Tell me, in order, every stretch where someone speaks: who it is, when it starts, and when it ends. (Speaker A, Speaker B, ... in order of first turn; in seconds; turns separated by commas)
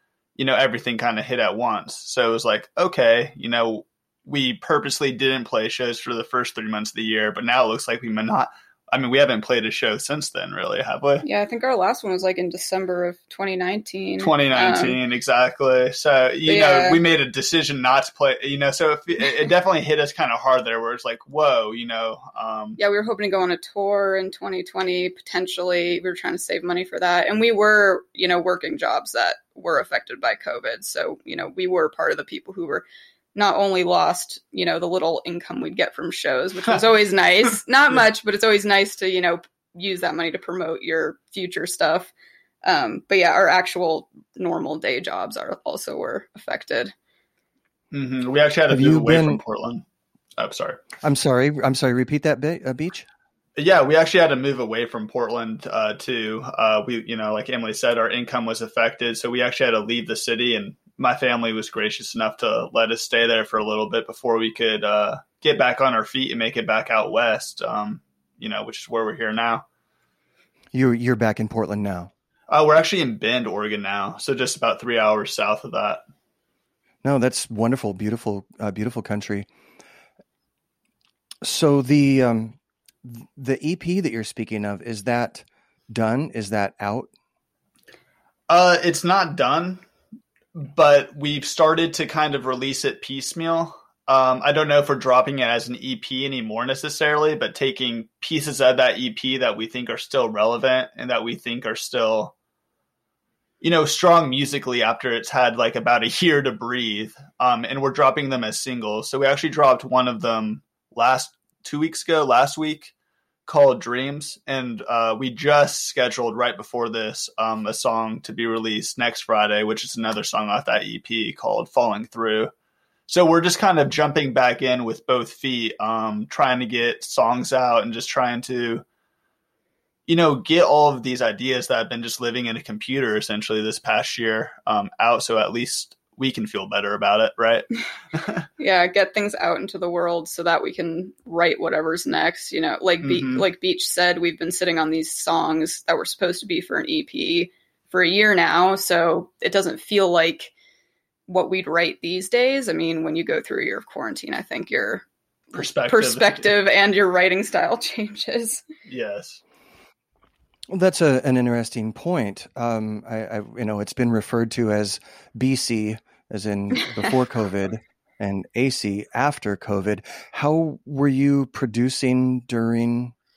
Speaker A: 0.3-11.2, Speaker B: 11.2-15.0, Speaker A: 14.2-22.8, Speaker B: 16.5-17.0, Speaker B: 22.8-42.1, Speaker B: 42.6-46.9, Speaker A: 47.9-49.8, Speaker C: 48.7-49.4, Speaker A: 50.4-50.8, Speaker C: 51.0-53.1, Speaker A: 53.5-69.6, Speaker C: 70.7-72.1, Speaker A: 72.5-76.0, Speaker C: 77.0-79.5, Speaker C: 81.4-87.1, Speaker A: 88.5-89.8, Speaker A: 90.5-102.3, Speaker A: 103.6-112.9, Speaker A: 113.5-122.5, Speaker A: 123.1-128.8, Speaker A: 130.1-138.4, Speaker B: 138.6-150.5, Speaker A: 143.0-143.4, Speaker B: 151.3-155.0, Speaker A: 155.5-156.5, Speaker B: 155.9-158.6, Speaker A: 158.8-159.4, Speaker C: 160.7-173.1